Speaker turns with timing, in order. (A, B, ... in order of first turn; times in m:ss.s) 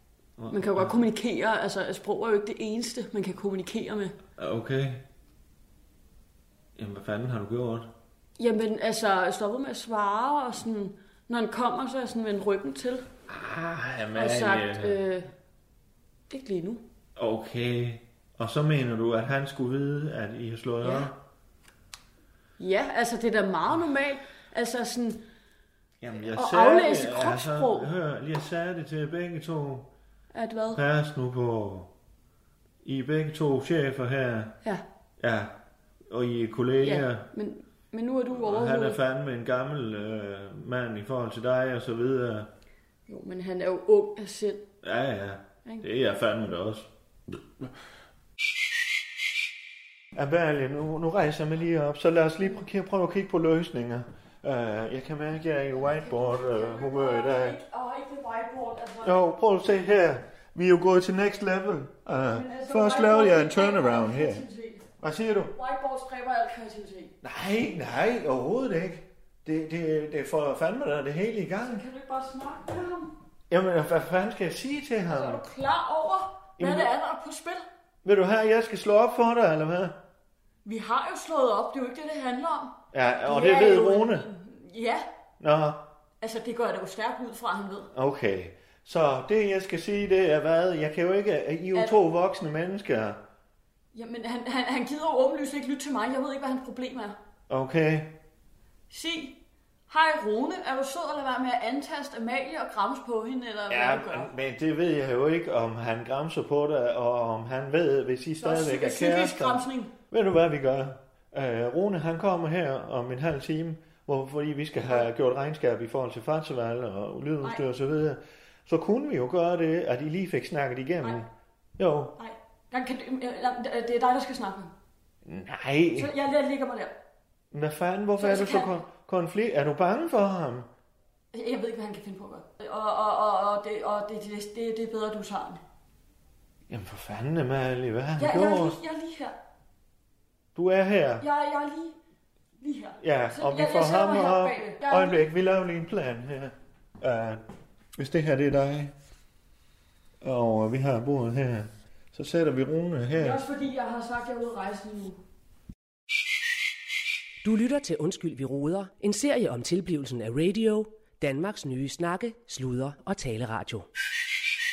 0:00.4-0:00.9 A
0:00.5-0:04.2 B
0:04.4-0:05.0 A
0:06.8-0:07.9 A
0:08.4-0:13.1 B
0:13.3-0:15.0 A
0:14.1-0:15.3 B
0:16.3-0:16.8 B
0:17.2-0:21.2 A
0:20.8-0:21.1 B
0:22.6-0:25.2 B
0:26.0-0:29.9 A
0:26.3-0:27.9 B
0:30.3-0:30.8 B
0:30.7-0:31.9 A
0:32.8-0:34.6 A
0:35.2-0:35.6 A
0:36.1-0:37.3 A
0:36.8-0:39.0 B
0:38.4-0:42.5 A
0:43.1-0:44.7 B
0:44.8-0:46.9 A
0:50.1-0:57.6 A
0:55.7-0:59.2 B
0:59.0-1:04.4 A
1:02.3-1:04.9 B
1:05.0-1:05.5 A
1:05.5-1:07.2 B
1:07.2-1:11.8 A
1:11.6-1:13.2 B
1:13.5-1:15.4 A
1:15.1-1:17.7 B
1:16.6-1:16.9 A
1:18.0-1:20.0 A
1:20.6-1:25.1 B
1:22.9-1:24.3 A
1:25.4-1:25.9 A
1:26.2-1:27.9 B
1:27.9-1:33.2 A
1:33.9-1:37.2 B
1:37.5-1:38.2 A
1:38.9-1:39.4 B
1:39.9-1:44.3 B
1:43.7-2:02.2 A
1:48.4-1:49.9 B
2:02.2-2:04.7 B
2:05.2-2:06.1 A
2:06.0-2:07.0 B
2:07.5-2:10.7 A
2:08.2-2:08.8 B
2:11.3-2:15.6 B
2:16.7-2:18.8 A
2:18.2-2:19.4 B
2:20.6-2:21.2 A
2:21.2-2:22.0 B
2:22.6-2:25.2 B
2:23.0-2:27.4 A
2:28.0-2:28.9 A
2:30.2-2:33.4 A
2:33.2-2:35.2 B
2:37.4-2:43.9 C